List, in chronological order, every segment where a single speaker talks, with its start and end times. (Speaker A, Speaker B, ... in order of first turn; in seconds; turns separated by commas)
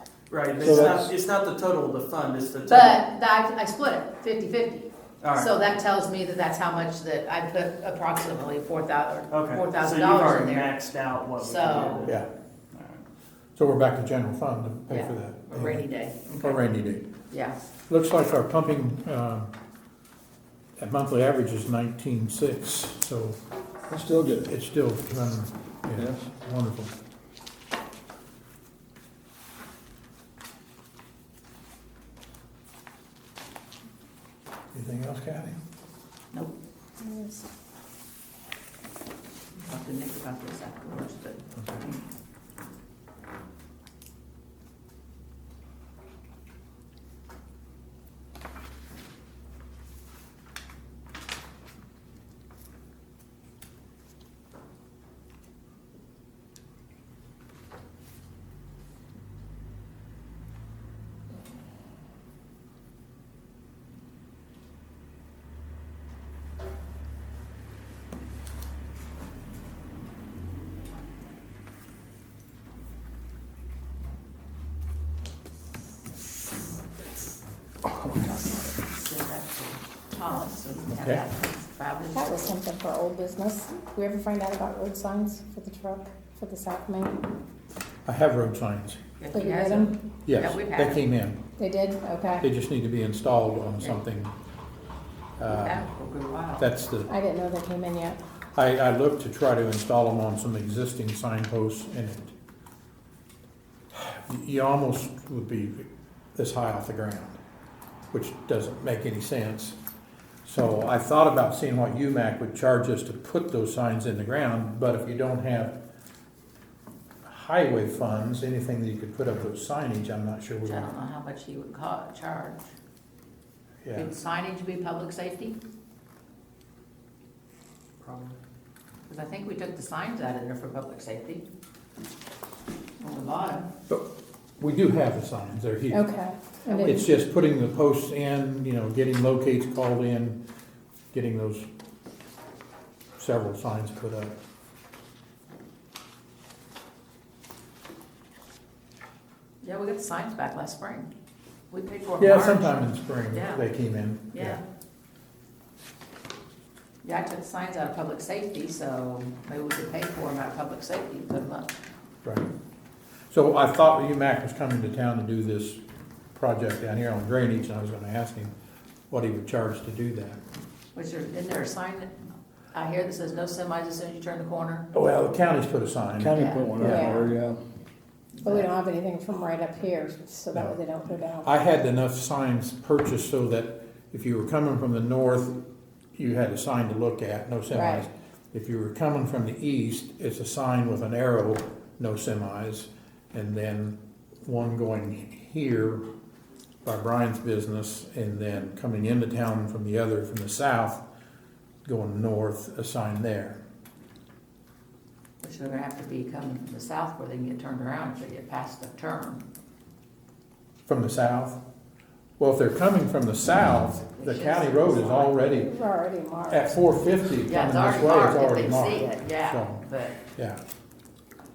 Speaker A: 0.3-3.0, Speaker B: 0.6-1.1, Speaker C: 2.7-10.7, Speaker A: 5.2-5.5, Speaker A: 9.3-12.2, Speaker C: 11.4-12.1, Speaker A: 12.7-13.0, Speaker D: 13.6-15.8, Speaker C: 14.9-16.6, Speaker D: 16.4-17.1, Speaker C: 17.3-17.6, Speaker D: 17.9-19.5, Speaker D: 20.8-23.4, Speaker B: 23.9-24.5, Speaker D: 24.3-26.9, Speaker D: 34.7-35.5, Speaker E: 37.0-37.5, Speaker C: 39.6-42.0, Speaker C: 78.2-82.6, Speaker D: 80.9-81.2, Speaker E: 82.1-87.2, Speaker D: 88.0-89.0, Speaker C: 89.2-91.0, Speaker E: 89.3-89.9, Speaker D: 90.2-91.4, Speaker E: 91.5-92.5, Speaker D: 92.4-94.3, Speaker D: 95.4-95.8, Speaker C: 95.5-96.7, Speaker D: 96.6-97.1, Speaker E: 97.1-98.2, Speaker D: 98.5-102.3, Speaker D: 103.9-107.4, Speaker D: 108.1-109.8, Speaker D: 110.4-115.7, Speaker D: 117.2-120.9, Speaker C: 120.6-122.7, Speaker D: 123.8-124.1, Speaker C: 123.9-125.6, Speaker A: 128.0-128.4, Speaker C: 129.1-131.4, Speaker C: 133.0-133.7, Speaker D: 133.9-136.1, Speaker E: 135.9-137.1, Speaker D: 136.8-140.4, Speaker D: 141.1-141.7, Speaker D: 143.2-144.3, Speaker C: 149.6-151.1, Speaker C: 151.7-153.6, Speaker D: 152.2-154.6, Speaker C: 154.3-154.6, Speaker C: 157.0-161.7, Speaker D: 162.2-162.5, Speaker D: 163.3-165.8, Speaker D: 166.3-168.5, Speaker D: 169.1-170.4, Speaker C: 170.9-174.9, Speaker D: 174.9-177.2, Speaker B: 176.2-177.6, Speaker C: 176.3-177.2, Speaker E: 176.8-177.3, Speaker C: 178.3-178.7, Speaker E: 178.4-181.5, Speaker D: 181.4-185.6, Speaker D: 186.2-196.0, Speaker E: 187.7-188.0, Speaker D: 196.8-201.0, Speaker D: 201.8-203.6, Speaker C: 205.4-209.4, Speaker D: 210.8-211.6, Speaker D: 212.4-215.7, Speaker C: 214.2-215.4, Speaker E: 215.4-216.7, Speaker D: 216.5-220.6, Speaker C: 217.4-220.2